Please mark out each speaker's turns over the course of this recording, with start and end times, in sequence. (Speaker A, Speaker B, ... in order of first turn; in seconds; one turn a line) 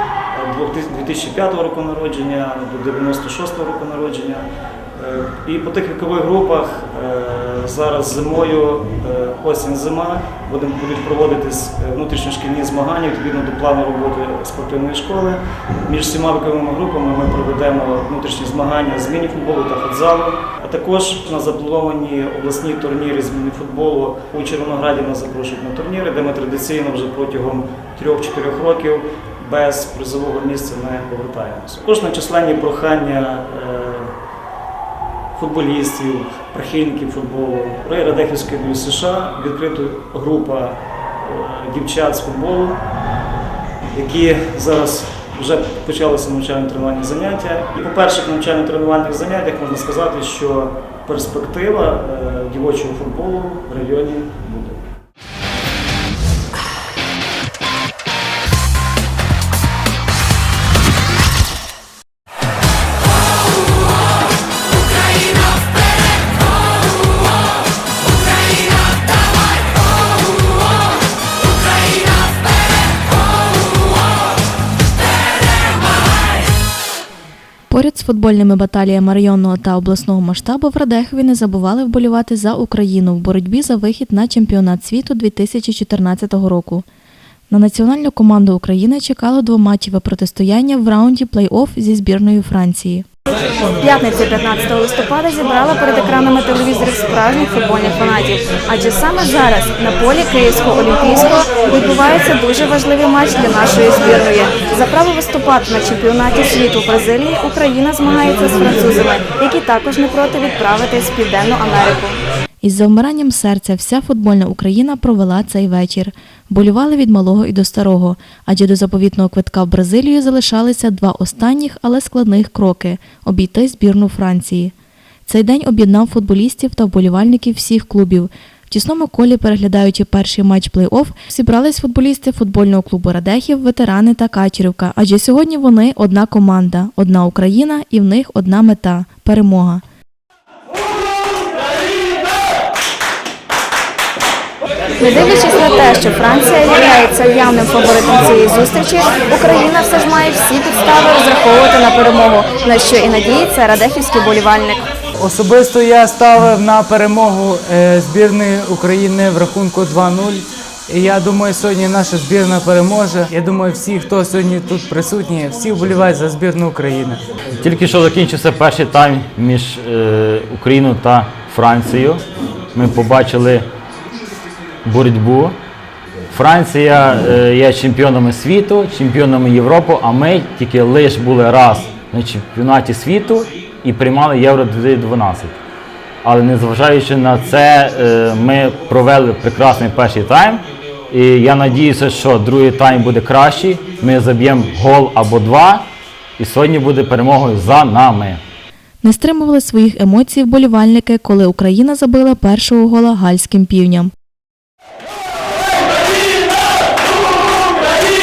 Speaker A: 0.3-34.1
Speaker A: 35.3-42.8
Speaker A: 43.9-54.9
Speaker B: 77.7-86.8
Speaker B: 87.5-93.1
Speaker C: 93.8-112.2
Speaker B: 112.6-124.7
Speaker B: 125.3-139.8
Speaker C: 145.0-154.9
Speaker D: 155.2-167.2
Speaker E: 167.5-173.7
Speaker E: 174.8-175.6
Speaker E: 176.3-185.6
Speaker E: 186.2-198.4
Speaker B: 199.0-204.1